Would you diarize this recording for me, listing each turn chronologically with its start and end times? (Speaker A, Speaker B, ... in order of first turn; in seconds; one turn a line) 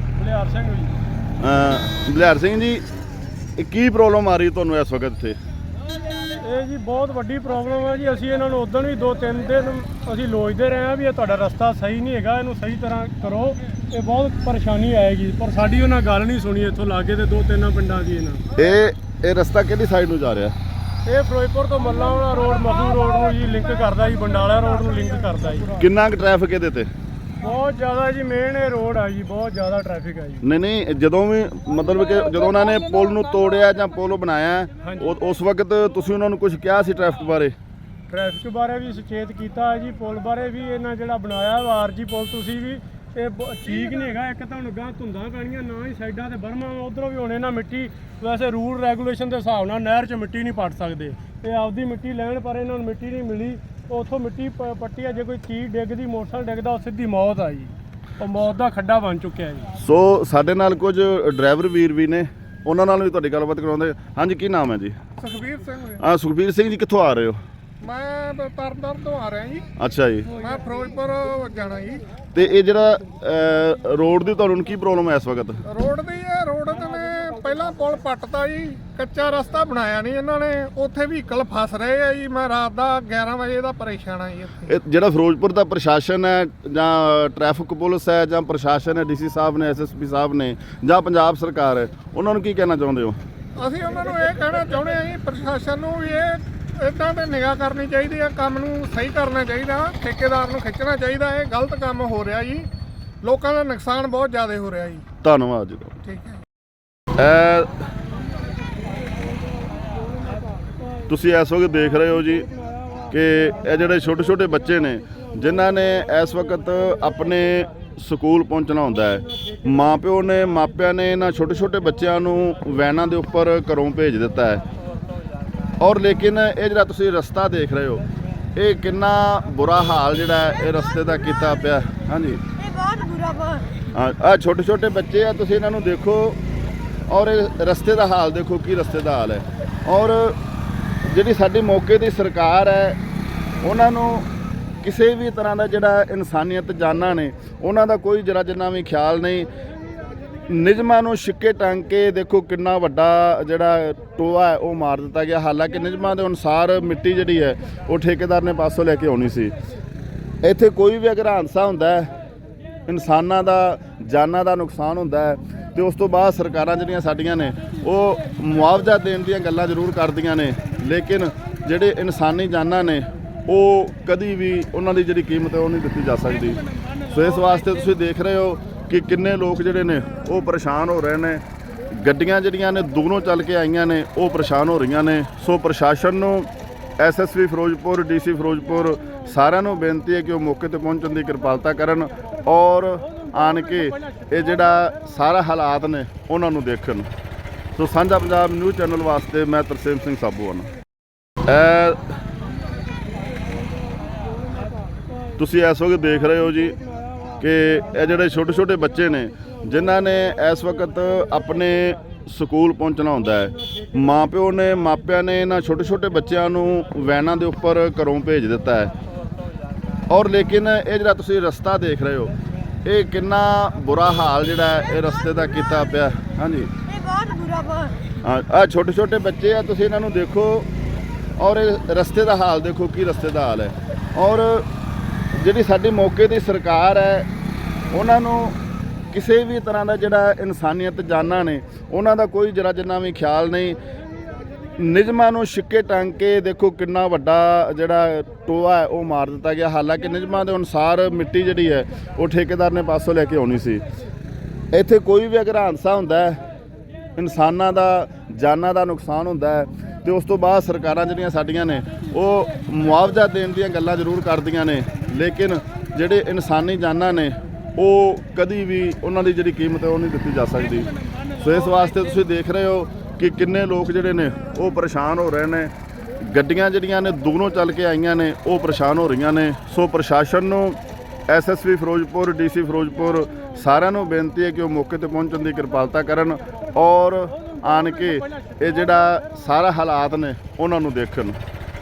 Speaker A: 0.1-0.9
Speaker B: 1.4-2.8
Speaker B: 3.6-5.4
Speaker A: 6.3-18.4
Speaker B: 18.5-20.5
Speaker A: 21.1-25.8
Speaker B: 25.8-26.9
Speaker A: 27.4-30.4
Speaker B: 30.4-37.5
Speaker A: 34.8-35.1
Speaker A: 38.1-59.7
Speaker B: 59.8-65.0
Speaker C: 65.2-66.0
Speaker B: 66.0-67.4
Speaker C: 67.8-69.6
Speaker B: 69.8-70.3
Speaker C: 70.3-72.0
Speaker B: 72.3-75.6
Speaker C: 75.7-84.7
Speaker B: 84.6-93.2
Speaker C: 93.5-102.7
Speaker C: 103.2-105.0
Speaker B: 105.2-106.0
Speaker C: 106.0-106.4
Speaker B: 107.1-107.7
Speaker B: 111.1-112.5
Speaker B: 113.1-124.6
Speaker B: 125.8-128.0
Speaker B: 128.6-132.4
Speaker D: 132.6-133.7
Speaker B: 133.9-136.4
Speaker B: 137.1-140.4
Speaker B: 141.0-143.0
Speaker B: 143.6-144.3
Speaker B: 144.8-149.5
Speaker B: 150.5-159.5
Speaker B: 160.4-162.1
Speaker B: 162.9-197.1
Speaker B: 197.8-200.7
Speaker B: 201.4-202.0
Speaker B: 205.4-206.8
Speaker B: 207.4-218.9
Speaker B: 220.1-222.3
Speaker B: 222.8-226.7
Speaker D: 226.9-228.0
Speaker B: 228.2-230.7
Speaker B: 231.4-234.7
Speaker B: 235.3-237.3
Speaker B: 237.9-238.6
Speaker B: 239.1-243.8
Speaker B: 244.8-253.8
Speaker B: 254.7-256.4
Speaker B: 257.1-291.4